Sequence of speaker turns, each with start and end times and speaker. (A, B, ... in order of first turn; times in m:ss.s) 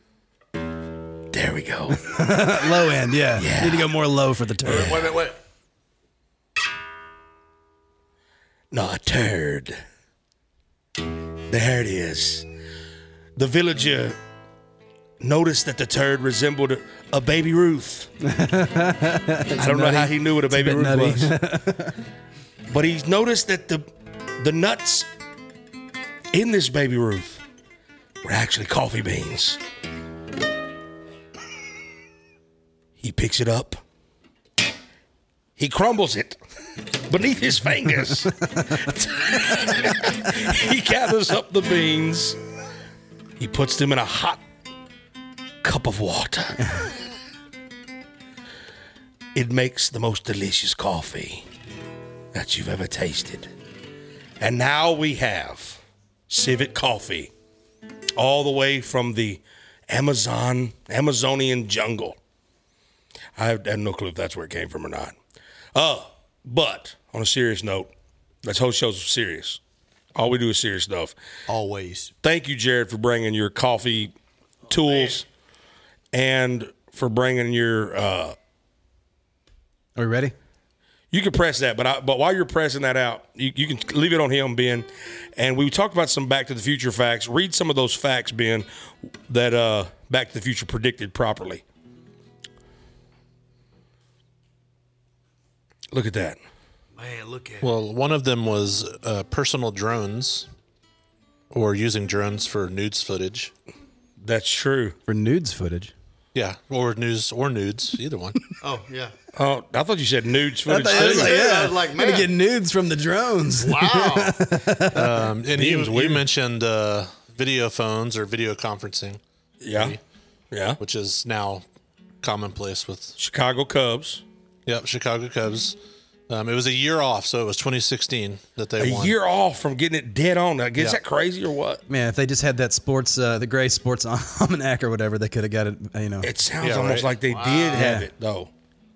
0:01.3-0:02.0 A
0:01.9-0:05.1 B
0:03.4-0:03.9 A
0:04.7-0:05.4 C
0:08.7-0:09.8 A
0:11.5-0:12.4 A
0:13.4-0:14.2 A
0:15.2-0:18.1 A
0:18.2-0:21.9 B
0:19.6-0:21.3 A
0:22.7-0:23.9 A
0:24.4-0:25.1 A
0:26.3-0:27.4 A
0:28.2-0:29.6 A
0:33.0-0:33.8 A
0:35.6-0:36.4 A
0:37.1-0:42.4 A
0:43.4-0:44.4 A
0:45.6-0:46.9 A
0:49.3-0:51.4 A
0:52.3-0:53.5 A
0:54.4-0:57.3 A
0:58.2-1:02.2 A
1:03.4-1:05.1 A
1:05.7-1:07.9 A
1:08.4-1:09.6 A
1:10.1-1:11.1 A
1:11.5-1:12.1 C
1:12.2-1:14.1 A
1:14.7-1:15.2 A
1:16.1-1:18.3 A
1:20.0-1:20.3 B
1:21.1-1:28.6 A
1:29.3-1:31.6 A
1:35.9-1:36.4 A
1:37.0-1:37.7 C
1:37.6-1:40.5 D
1:41.5-1:43.5 D
1:44.2-1:45.0 A
1:45.1-1:45.9 B
1:46.3-1:48.4 D
1:48.6-1:49.1 C
1:49.3-1:51.4 A
1:50.7-1:55.0 B
1:50.9-1:52.3 C
1:53.6-1:54.4 C
1:54.9-1:59.2 D
1:55.5-1:56.2 A
1:59.6-2:00.0 A
1:59.7-2:00.0 D
2:00.5-2:00.8 A
2:00.8-2:01.6 D
2:02.2-2:03.1 D
2:03.2-2:04.2 A
2:04.6-2:05.8 D
2:06.3-2:09.1 D
2:08.8-2:11.8 A
2:11.9-2:16.3 B
2:16.2-2:18.5 A
2:16.6-2:17.1 D
2:17.3-2:17.9 C
2:17.7-2:18.1 B